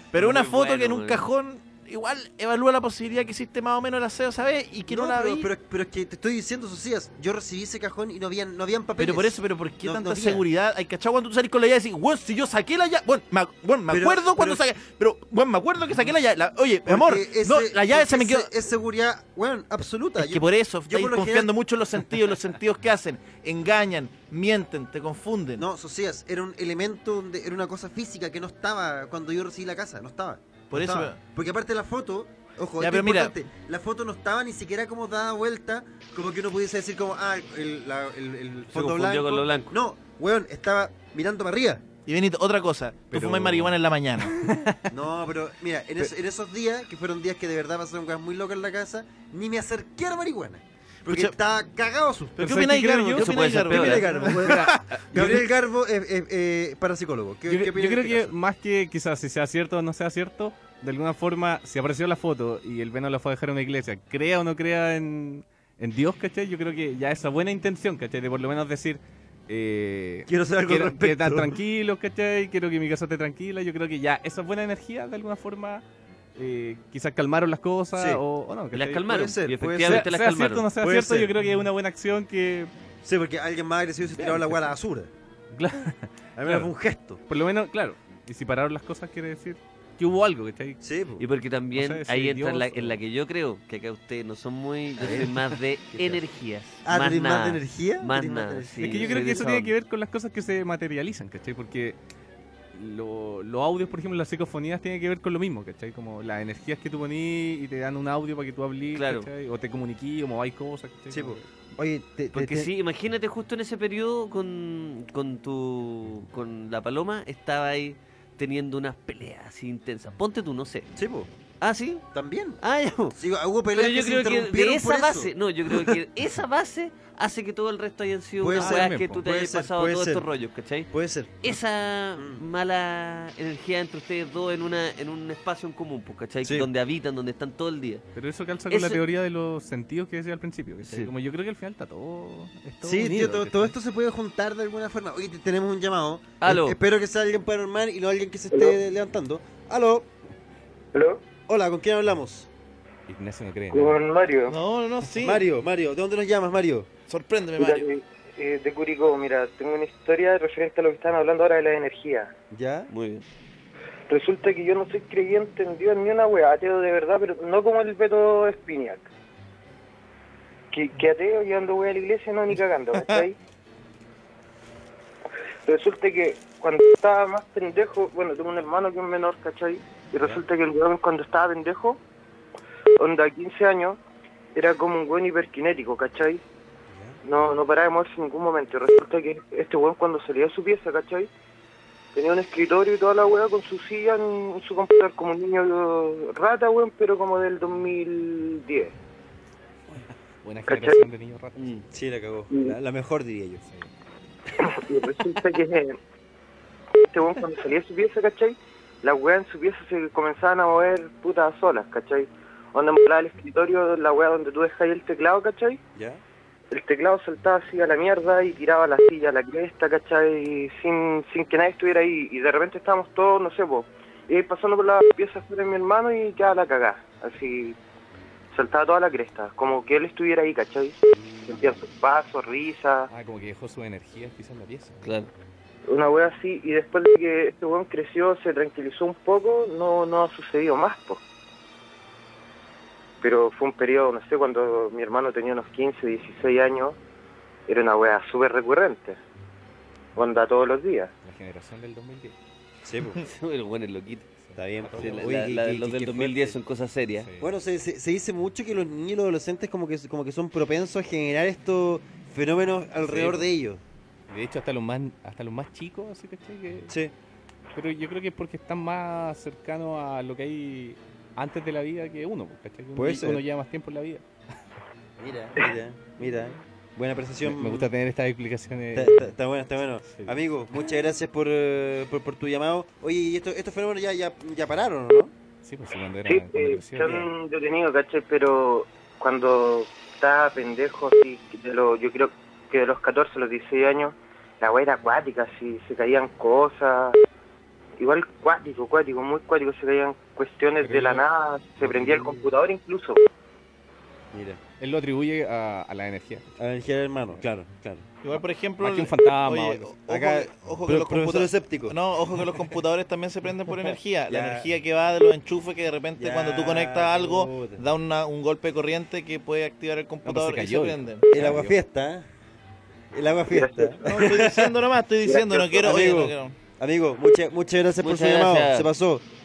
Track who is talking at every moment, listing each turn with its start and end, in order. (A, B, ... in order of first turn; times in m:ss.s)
0:00.1-0:05.5 A
0:00.1-0:01.2 B
0:04.9-0:10.4 C
0:09.0-0:18.5 A
0:13.9-0:14.6 C
0:16.9-0:21.5 C
0:20.2-0:25.6 A
0:25.6-0:41.8 C
0:30.7-0:31.2 A
0:32.8-0:33.3 A
0:38.7-0:39.7 B
0:42.1-0:44.4 A
0:43.1-0:44.9 D
0:44.9-0:52.4 C
0:51.1-0:51.3 A
0:52.4-0:55.4 A
0:52.4-0:55.4 D
0:53.2-0:54.1 B
0:53.7-0:58.4 C
0:57.5-1:15.8 D
1:10.3-1:11.6 C
1:16.4-1:19.2 D
1:18.0-1:18.2 C
1:18.7-1:20.7 B
1:19.0-1:20.1 C
1:19.8-1:22.7 D
1:20.8-1:21.3 C
1:23.0-1:25.1 C
1:24.1-1:24.7 D
1:25.5-1:26.7 D
1:26.4-1:27.2 C
1:27.3-1:30.8 D
1:30.8-1:31.2 C
1:31.2-1:39.8 B
1:31.7-1:33.0 D
1:35.0-1:35.3 C
1:35.0-1:35.6 D
1:35.9-1:36.2 C
1:36.8-1:39.2 C
1:38.8-1:42.0 D
1:42.7-1:51.4 D
1:48.9-1:49.3 B
1:51.1-1:52.7 C
1:52.3-2:00.9 B
2:01.0-2:01.3 C
2:01.6-2:02.0 B
2:02.1-2:02.6 C
2:02.6-2:03.2 B
2:03.1-2:06.0 C
2:03.7-2:10.9 B
2:08.4-2:10.3 C
2:08.5-2:09.3 D
2:10.9-2:11.6 C
2:11.4-2:18.0 B
2:12.2-2:12.4 C
2:16.4-2:16.7 C
2:18.2-2:23.7 D
2:18.7-2:19.0 B
2:22.8-2:30.1 C
2:26.4-2:26.8 B
2:30.9-2:31.2 E
2:31.5-2:32.5 C
2:33.1-2:34.0 D
2:33.7-2:34.6 E
2:34.5-2:35.4 A
2:35.2-2:36.9 C
2:37.1-2:37.9 A
2:37.6-2:42.3 E
2:42.5-2:42.9 C
2:42.9-2:43.3 B
2:44.1-2:49.1 E
2:50.7-2:53.4 E
2:52.9-2:53.2 A
2:55.7-3:02.0 E
3:03.0-3:04.0 E
3:04.6-3:06.4 E
3:06.9-3:07.2 C
3:07.2-3:11.3 E
3:12.2-3:18.9 E
3:20.4-3:21.9 D
3:20.7-3:21.0 E
3:21.6-3:21.8 B
3:21.9-3:23.6 C
3:23.6-3:23.9 D
3:24.6-3:26.0 E
3:27.0-3:35.8 E
3:36.0-3:36.2 C
3:36.7-3:47.8 E
3:48.5-3:51.0 E
3:51.1-3:51.7 C
3:51.6-3:53.1 E
3:53.1-3:55.0 D
3:55.0-3:55.3 B
3:55.9-4:01.2 E
4:03.2-4:07.0 E
4:07.7-4:09.2 E
4:10.2-4:11.1 E
4:11.2-4:12.4 D
4:12.8-4:13.2 C
4:13.2-4:14.3 B
4:14.4-4:16.6 D
4:14.6-4:15.8 C
4:15.0-4:17.3 B
4:17.2-4:17.5 D
4:17.4-4:23.8 C
4:23.0-4:23.5 D
4:24.3-4:26.9 D
4:27.8-4:34.2 D
4:33.0-4:33.4 C
4:35.2-4:37.9 C
4:37.4-4:39.3 D
4:38.9-4:45.3 C
4:40.0-4:41.0 D
4:45.6-4:47.2 D
4:46.2-4:57.2 E
4:47.0-4:47.3 C
4:58.0-5:03.2 E
5:00.8-5:01.2 D
5:01.8-5:02.4 D
5:01.9-5:02.2 C
5:04.3-5:04.6 C
5:04.8-5:06.4 D
5:06.6-5:08.0 C
5:08.2-5:21.3 A
5:08.3-5:10.0 D
5:10.1-5:12.0 C
5:13.9-5:14.7 C
5:16.2-5:17.8 C
5:20.2-5:21.8 D
5:21.3-5:22.3 C
5:23.1-5:24.7 C
5:23.5-5:24.0 E
5:24.0-5:26.5 A
5:25.3-5:25.8 E
5:25.8-5:29.2 C
5:28.0-5:28.9 B